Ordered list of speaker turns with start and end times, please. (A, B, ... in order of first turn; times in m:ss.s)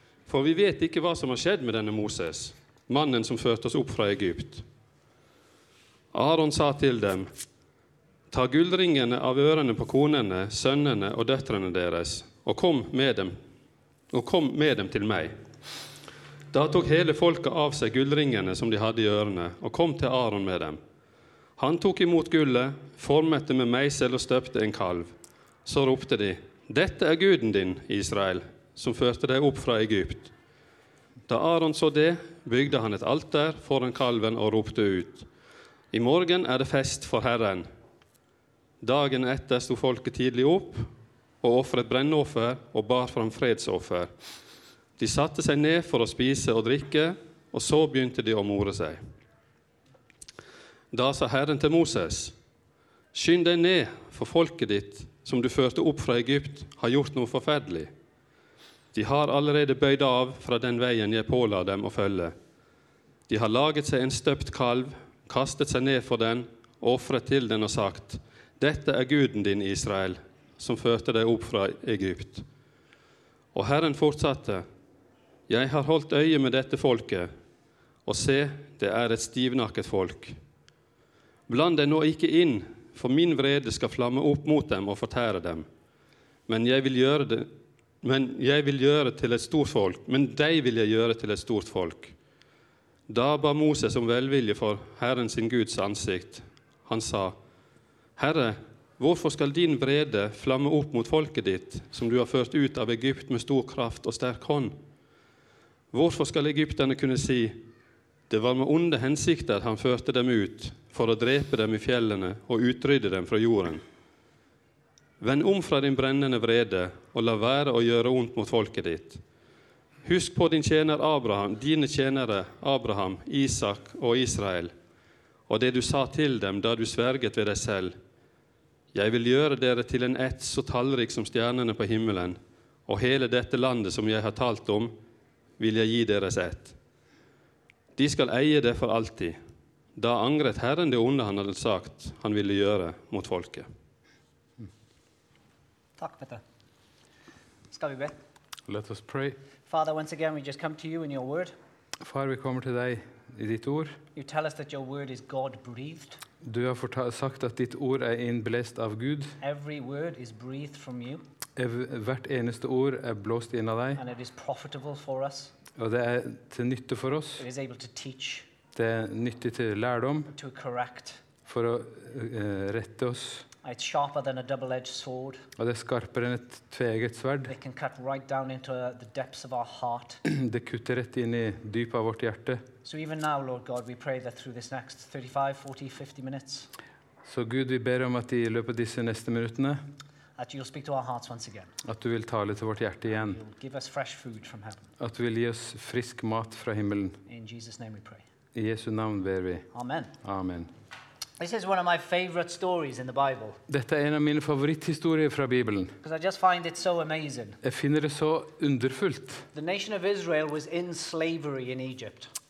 0:00.2-0:04.6 A
0:06.1-0:07.5 A
0:08.3-0:13.4 A
0:14.1-0:15.9 A
0:16.5-0:20.8 A
0:21.6-0:30.3 A
0:31.2-0:35.3 A
0:35.9-0:37.7 A
0:38.8-0:44.4 A
0:45.0-0:49.0 A
0:50.9-0:52.4 A
0:53.1-0:57.9 A
0:58.9-1:02.5 A
1:03.3-1:12.5 A
1:13.5-1:14.6 A
1:15.5-1:17.3 A
1:18.0-1:20.4 A
1:21.5-1:25.7 A
1:26.5-1:27.5 A
1:28.0-1:32.2 A
1:33.1-1:44.8 A
1:45.9-1:47.6 A
1:48.3-1:53.8 A
1:55.2-1:59.3 A
2:00.0-2:04.7 A
2:05.4-2:08.0 A
2:08.9-2:14.9 A
2:15.6-2:16.8 A
2:18.0-2:19.4 A
2:19.9-2:23.7 A
2:26.0-2:26.4 B
2:27.7-2:28.1 B
2:28.7-2:29.4 C
2:29.6-2:31.5 B
2:32.0-2:34.0 C
2:34.1-2:36.2 B
2:36.4-2:39.4 C
2:39.4-2:41.2 B
2:41.6-2:44.0 C
2:44.0-2:45.5 B
2:45.8-2:47.4 C
2:47.4-2:48.5 B
2:48.7-2:50.3 C
2:50.3-2:51.2 B
2:51.4-2:53.4 C
2:53.6-2:55.4 B
2:55.6-2:57.5 C
2:57.5-3:00.2 B
3:00.2-3:02.6 C
3:02.8-3:06.7 B
3:07.2-3:09.8 C
3:10.4-3:11.7 B
3:11.8-3:13.4 C
3:13.3-3:14.9 B
3:15.0-3:17.2 C
3:17.3-3:18.2 B
3:18.5-3:19.6 C
3:19.7-3:20.1 B
3:20.2-3:20.7 C
3:21.4-3:23.6 B
3:23.7-3:25.9 C
3:26.0-3:27.6 B
3:27.6-3:29.5 C
3:29.5-3:32.3 B